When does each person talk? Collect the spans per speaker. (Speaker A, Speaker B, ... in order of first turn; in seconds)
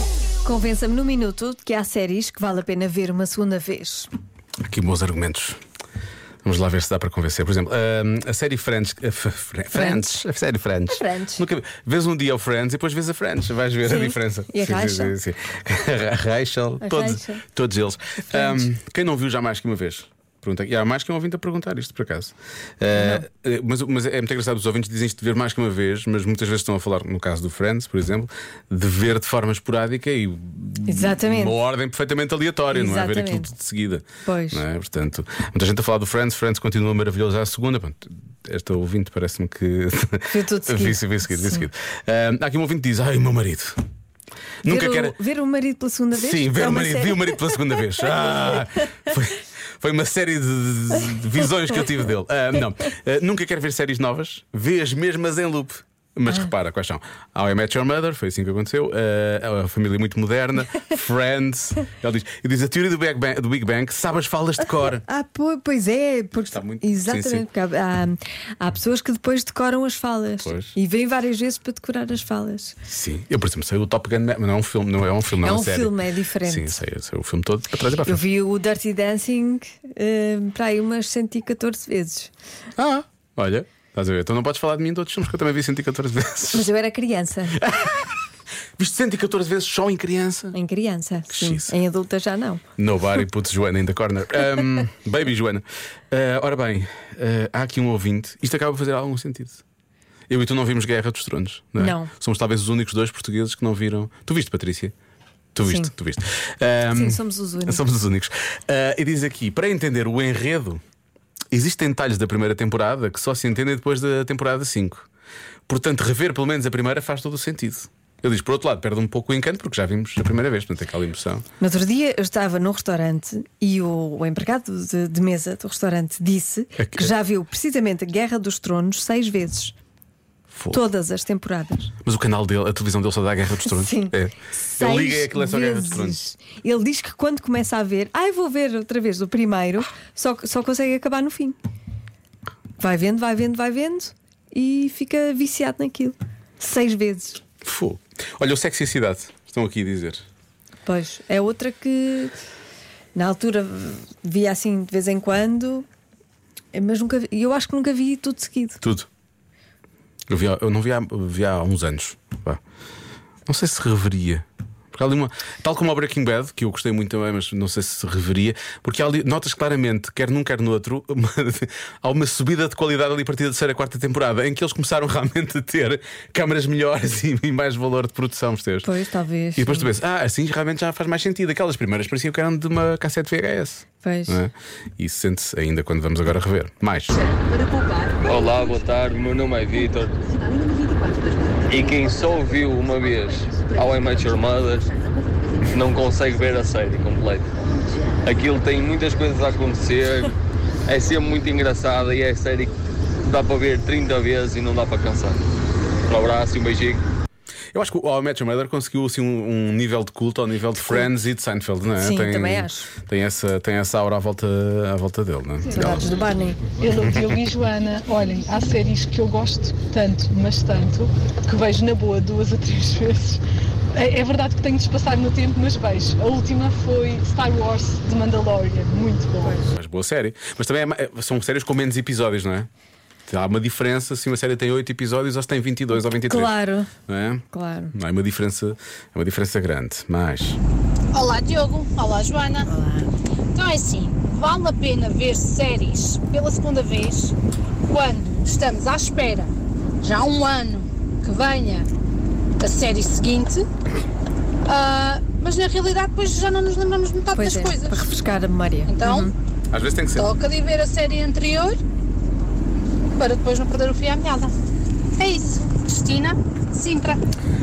Speaker A: 0.4-4.1, 9.7-10.2, 10.9-11.4, 13.8-15.1, 16.8-17.4, 18.3-18.7, 22.9-23.3, 30.8-31.6, 32.7-33.5, 34.2-34.6, 40.3-41.7, 44.6-48.5, 64.9-72.8, 75.4-76.8, 78.0-82.3, 86.5-87.6, 90.5-92.6, 101.8-102.1, 105.6-105.9, 106.9-107.8, 121.6-129.7, 130.7-131.9, 133.7-141.6, 142.8-147.4, 150.8-152.3, 153.1-155.9, 156.7-158.8, 178.8-179.9, 184.0-184.4, 212.0-212.9, 215.7-216.6, 229.4-229.7, 235.9-236.9, 237.5-237.9, 242.7-243.1, 257.3-259.3
Speaker B: 4.7-5.6, 6.4-43.8, 44.6-45.1, 46.1-65.0, 66.5-67.5, 70.4-70.7, 72.8-78.2, 82.8-86.7, 87.5-88.2, 88.8-90.5, 91.3-91.7, 92.8-99.6, 100.3-104.9, 105.5-110.8, 111.5-115.1, 115.7-121.4, 126.8-127.1, 130.5-130.8, 132.0-136.2, 147.6-150.2, 158.8-159.1, 160.3-162.6, 163.4-178.9, 179.6-187.2, 207.7-216.1, 229.7-232.7, 233.3-236.5, 237.1-240.6, 259.7-260.3
Speaker C: 188.2-190.2, 191.7-194.9, 195.6-197.5, 198.2-205.4, 206.1-207.0
Speaker D: 216.8-223.4, 223.9-229.5
Speaker E: 241.1-242.7, 243.5-247.3, 247.8-251.9, 252.6-253.7, 254.7-258.0, 258.9-259.3, 260.1-261.8, 263.1-264.5, 265.2-267.2